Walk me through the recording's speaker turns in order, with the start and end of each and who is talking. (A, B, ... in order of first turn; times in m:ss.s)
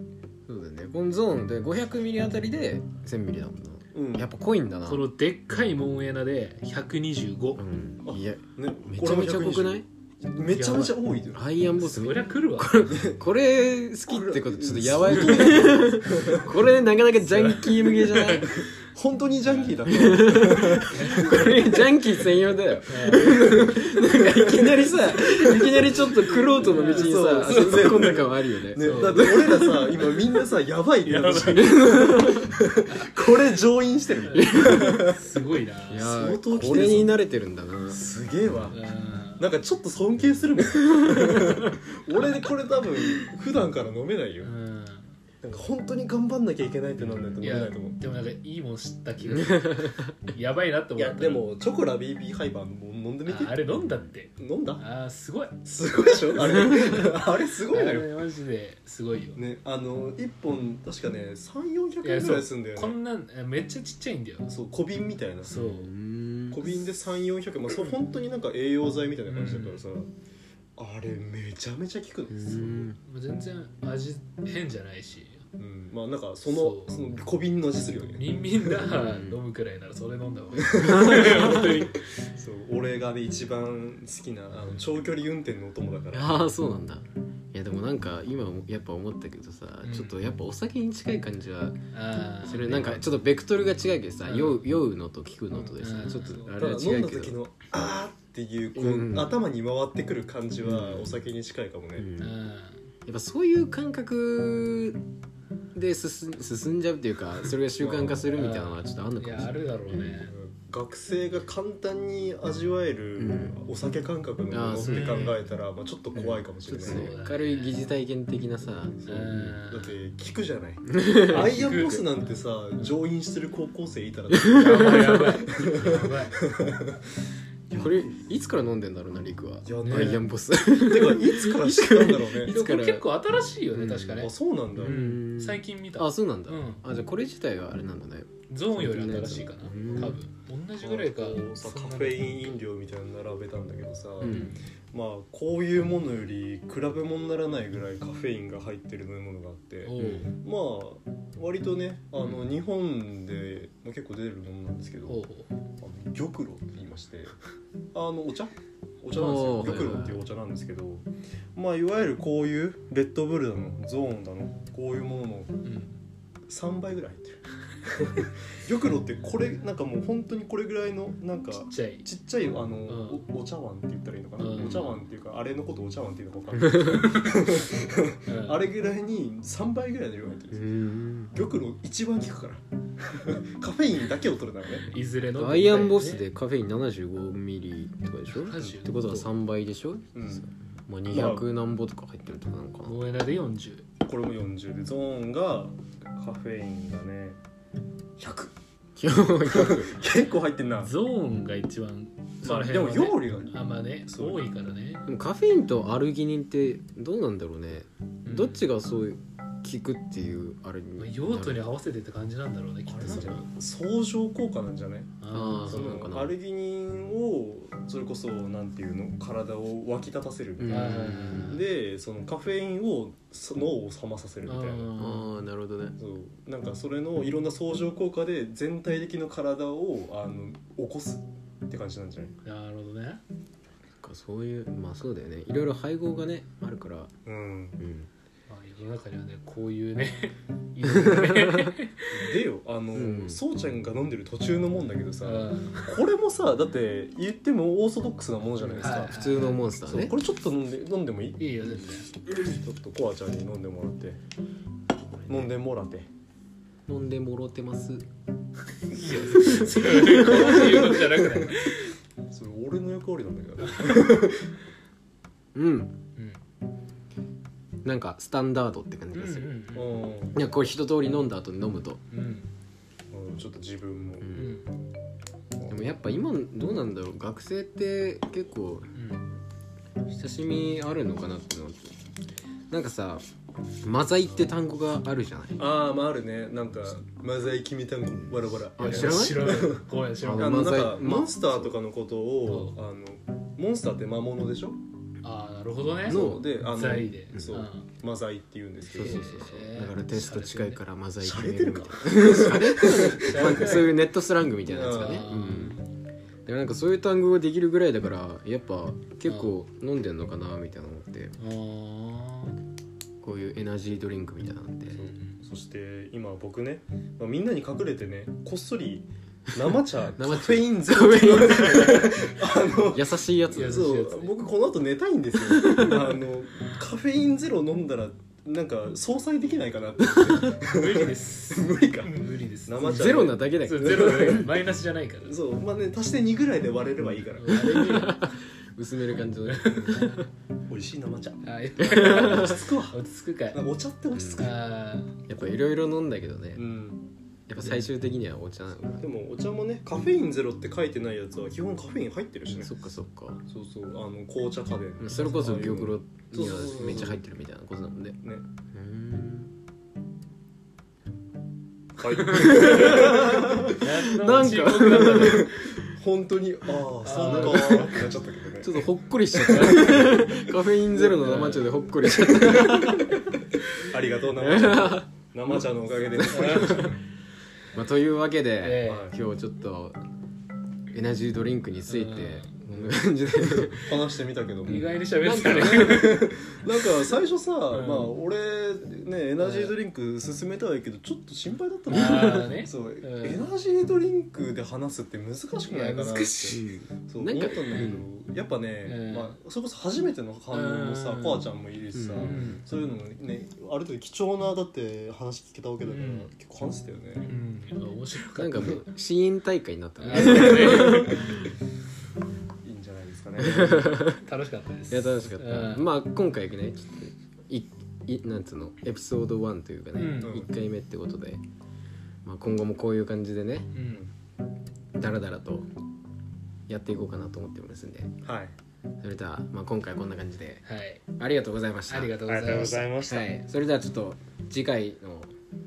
0:00.5-0:05.1 A
0:03.9-0:04.3 B
0:04.8-0:07.6 C
0:07.6-0:09.8 A
0:08.0-0:11.4 B
0:10.5-0:11.0 C
0:11.3-0:18.6 A
0:11.6-0:13.0 C
0:12.9-0:13.2 B
0:14.1-0:16.5 B
0:17.4-0:18.6 C
0:18.4-0:21.8 B
0:19.4-0:19.9 C
0:19.9-0:30.1 A
0:20.9-0:21.2 C
0:22.9-0:23.7 C
0:23.1-0:26.1 B
0:25.4-0:28.2 C
0:26.7-0:35.2 B
0:28.8-0:29.7 C
0:31.1-0:31.7 C
0:31.3-0:32.5 A
0:32.9-0:33.2 C
0:34.2-0:36.1 C
0:34.3-0:35.2 A
0:35.9-0:38.0 A
0:35.9-0:37.2 B
0:37.9-0:38.8 B
0:38.7-0:39.4 C
0:39.4-0:44.5 B
0:40.8-0:41.7 A
0:44.4-0:45.1 C
0:45.4-0:48.0 B
0:47.4-0:51.4 C
0:49.4-0:50.1 A
0:51.0-0:53.7 B
0:53.2-0:59.4 C
0:54.4-0:54.8 B
0:55.6-0:58.1 B
0:59.4-1:03.0 B
1:02.0-1:04.5 C
1:04.5-1:05.5 B
1:05.4-1:05.9 C
1:05.5-1:06.7 A
1:06.5-1:10.1 B
1:09.3-1:09.8 C
1:10.8-1:12.9 B
1:12.3-1:13.0 A
1:13.0-1:15.4 C
1:15.6-1:18.8 B
1:16.4-1:16.9 C
1:18.2-1:22.1 C
1:18.8-1:19.4 A
1:20.6-1:26.5 B
1:20.8-1:21.7 A
1:26.1-1:31.8 A
1:29.8-1:30.2 C
1:31.9-1:33.0 C
1:32.4-1:37.4 A
1:34.2-1:34.6 C
1:35.7-1:42.1 B
1:35.8-1:36.5 C
1:38.8-1:39.4 A
1:40.6-1:41.1 A
1:42.0-1:42.3 A
1:42.2-1:42.8 C
1:43.0-1:45.0 A
1:45.7-1:50.2 A
1:47.8-1:48.3 B
1:48.3-1:50.3 C
1:50.3-1:57.1 B
1:53.2-1:53.6 A
1:54.5-1:55.2 A
1:54.8-1:55.4 C
1:56.2-1:59.6 A
1:56.8-1:57.8 C
1:59.1-2:00.0 C
1:59.1-2:07.0 B
2:00.9-2:01.5 A
2:01.2-2:02.9 C
2:04.3-2:05.4 A
2:04.5-2:06.4 C
2:07.7-2:08.1 B
2:07.7-2:13.0 A
2:09.6-2:12.5 B
2:09.8-2:10.2 C
2:12.4-2:14.3 C
2:13.7-2:20.2 A
2:14.2-2:15.0 B
2:14.8-2:16.8 C
2:18.5-2:22.5 C
2:19.8-2:20.2 B
2:20.8-2:35.2 B
2:24.2-2:24.5 A
2:24.2-2:24.6 C
2:29.8-2:30.3 C
2:30.0-2:30.3 A
2:35.1-2:35.5 C
2:35.8-2:37.3 B
2:37.9-2:45.5 B
2:39.1-2:40.2 A
2:45.6-2:46.0 C
2:46.5-3:00.7 B
2:51.6-2:52.0 C
2:52.9-2:53.2 C
2:54.4-2:54.9 C
2:56.6-2:57.0 A
2:58.3-2:58.6 C
3:00.5-3:01.3 A
3:01.3-3:04.9 B
3:04.9-3:06.2 C
3:05.3-3:13.0 A
3:08.3-3:09.3 C
3:10.1-3:10.4 B
3:11.1-3:11.5 B
3:12.8-3:13.8 C
3:14.0-3:17.4 B
3:18.2-3:18.5 B
3:19.0-3:20.0 A
3:19.4-3:20.9 B
3:20.8-3:25.0 C
3:22.4-3:24.5 B
3:25.0-3:31.7 A
3:28.2-3:28.6 C
3:31.0-3:33.5 C
3:32.9-3:44.9 B
3:35.2-3:35.9 C
3:35.3-3:36.3 A
3:40.6-3:41.6 A
3:40.7-3:41.6 C
3:44.5-3:45.3 C
3:45.0-3:46.0 A
3:46.0-3:52.3 B
3:52.4-3:53.2 C
3:54.0-3:57.1 A
3:57.2-3:57.8 B
3:57.8-3:58.1 A
3:58.5-4:02.3 C
4:00.8-4:01.7 A
4:02.1-4:09.2 B
4:02.9-4:03.4 A
4:05.2-4:06.0 C
4:08.7-4:09.6 C
4:08.8-4:10.1 A
4:09.8-4:11.5 B
4:11.4-4:12.1 C
4:12.3-4:14.2 B
4:15.3-4:16.1 B
4:16.9-4:18.1 A
4:18.9-4:21.9 C
4:19.0-4:21.2 A
4:20.2-4:21.0 B
4:22.3-4:24.5 B
4:25.5-4:26.0 A
4:27.8-4:29.6 A
4:29.1-4:30.1 C
4:29.7-4:30.4 B
4:30.3-4:32.0 A
4:32.1-4:32.5 C
4:33.1-4:34.5 B
4:34.2-4:34.5 A
4:34.3-4:34.7 C
4:35.7-4:38.9 A
4:38.9-4:39.2 C
4:40.1-4:41.8 A
4:42.7-4:43.2 A
4:43.8-4:45.6 A
4:45.6-4:49.8 B
4:48.8-4:49.7 A
4:48.8-4:50.9 C
4:50.2-4:51.7 A
4:50.4-4:54.8 B
4:52.5-4:52.8 C
4:55.2-4:57.9 C
4:56.1-4:59.5 B
4:56.1-4:56.4 A
4:58.8-5:05.8 A
4:59.0-5:00.8 C
5:01.2-5:03.8 B
5:02.8-5:04.0 C
5:04.7-5:05.4 B
5:04.9-5:05.8 C
5:06.4-5:11.4 A
5:09.3-5:09.5 C
5:11.4-5:12.6 C
5:13.2-5:15.0 A
5:14.9-5:34.5 B
5:15.0-5:15.3 C
5:20.1-5:23.9 A
5:23.5-5:24.4 C
5:25.5-5:26.0 A
5:30.5-5:35.4 C
5:32.8-5:34.4 A
5:35.2-5:38.0 B
5:37.4-5:38.3 C
5:37.4-5:40.3 A
5:39.5-5:40.2 C
5:40.7-5:43.0 B
5:41.4-5:43.6 C
5:41.8-5:42.6 A
5:43.5-5:44.6 B
5:44.1-5:44.5 A
5:44.4-5:45.2 C
5:45.2-5:46.7 A
5:46.5-5:47.1 B
5:47.5-5:49.0 A
5:48.8-5:52.8 B
5:52.5-5:53.4 A
5:53.4-5:57.2 B
5:55.0-5:58.2 A
5:58.7-5:59.5 A
6:02.0-6:03.8 B
6:02.2-6:05.9 A
6:02.4-6:05.7 C
6:04.9-6:10.3 B
6:07.0-6:08.0 C
6:07.1-6:08.0 A
6:08.6-6:13.2 A
6:09.5-6:10.1 C
6:11.0-6:11.8 C
6:12.2-6:13.1 B
6:13.8-6:17.0 B
6:14.4-6:15.1 A
6:16.2-6:16.9 A
6:16.3-6:16.9 C
6:17.7-6:20.0 A
6:18.6-6:19.1 C
6:18.8-6:19.2 B
6:20.9-6:24.0 A
6:21.9-6:22.5 C
6:23.7-6:47.3 B
6:24.6-6:26.3 C
6:24.7-6:26.2 A
6:27.7-6:28.1 C
6:29.4-6:29.7 C
6:31.9-6:33.5 C
6:31.9-6:32.5 A
6:35.7-6:36.6 C
6:36.5-6:38.0 A
6:38.8-6:39.4 C
6:40.5-6:41.4 C
6:41.9-6:42.6 A
6:42.1-6:42.6 C
6:45.9-6:46.3 C
6:47.2-6:48.9 C
6:48.3-6:51.5 A
6:50.0-6:51.5 C
6:50.1-6:51.3 B
6:52.6-6:54.0 B
6:53.4-6:54.2 A
6:54.1-6:55.9 C
6:54.9-7:01.4 A
7:00.0-7:00.4 C
7:00.2-7:00.5 B
7:02.2-7:03.7 A
7:03.7-7:04.1 C
7:04.9-7:05.7 A
7:06.7-7:08.1 A
7:08.2-7:08.5 B
7:09.0-7:10.6 A
7:10.6-7:11.0 C
7:11.2-7:12.2 A
7:11.9-7:12.9 C
7:12.2-7:13.3 B
7:13.0-7:15.3 A